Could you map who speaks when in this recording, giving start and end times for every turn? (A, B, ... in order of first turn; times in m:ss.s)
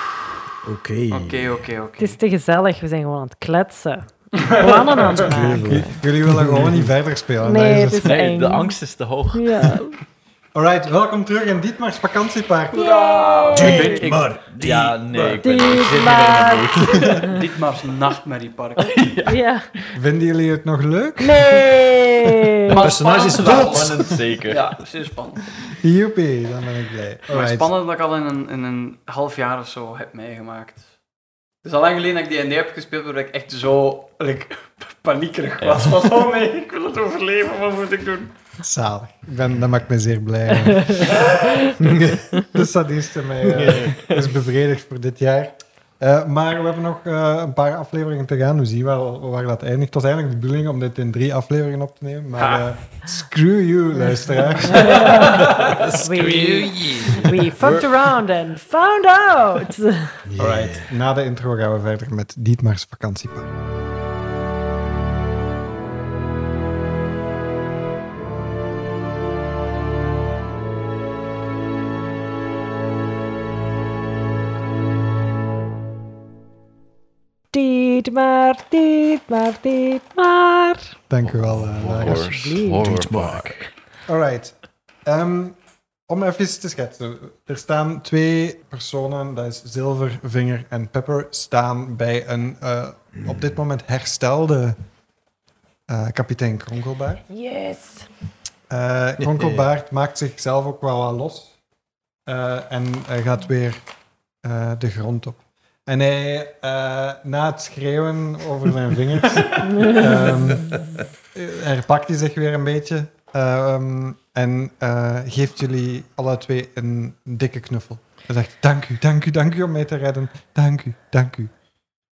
0:00.6-0:01.6 A
0:01.1-0:02.2 B
0:02.0-0:06.0 C
0:04.4-0:05.0 B
0:05.0-0:06.9 A
0:05.6-0:08.1 D
0:07.4-0:08.8 C
0:08.0-0:09.7 E
0:09.3-0:10.0 C
0:10.6-0:12.8 D
0:12.7-0:14.1 C
0:12.8-0:14.1 B
0:13.5-0:17.4 E
0:13.5-0:15.4 A
0:15.4-0:17.4 C
0:17.2-0:19.0 B
0:18.9-0:19.4 E
0:19.2-0:19.7 C
0:20.0-0:21.6 D
0:21.2-0:22.8 C
0:22.7-0:25.4 B
0:22.8-0:24.2 A
0:23.4-0:24.7 E
0:25.8-0:27.7 D
0:27.3-0:30.8 B
0:31.6-0:38.3 B
0:38.6-0:41.3 D
0:41.8-0:42.4 A
0:42.4-0:55.0 D
0:43.4-0:44.0 A
0:52.4-0:52.7 B
0:54.6-1:00.2 C
0:55.4-0:57.3 A
0:56.2-0:57.9 E
1:00.2-1:00.9 A
1:00.4-1:03.5 D
1:17.5-1:21.0 C
1:21.1-1:22.3 D
1:21.2-1:23.7 E
1:22.0-1:23.0 C
1:22.8-1:23.6 A
1:24.1-1:24.5 D
1:25.1-1:25.6 D
1:26.1-1:34.8 D
1:35.9-1:37.2 D
1:37.3-1:38.1 C
1:38.7-1:41.5 D
1:39.2-1:39.6 A
1:42.3-1:43.8 D
1:44.4-2:01.5 D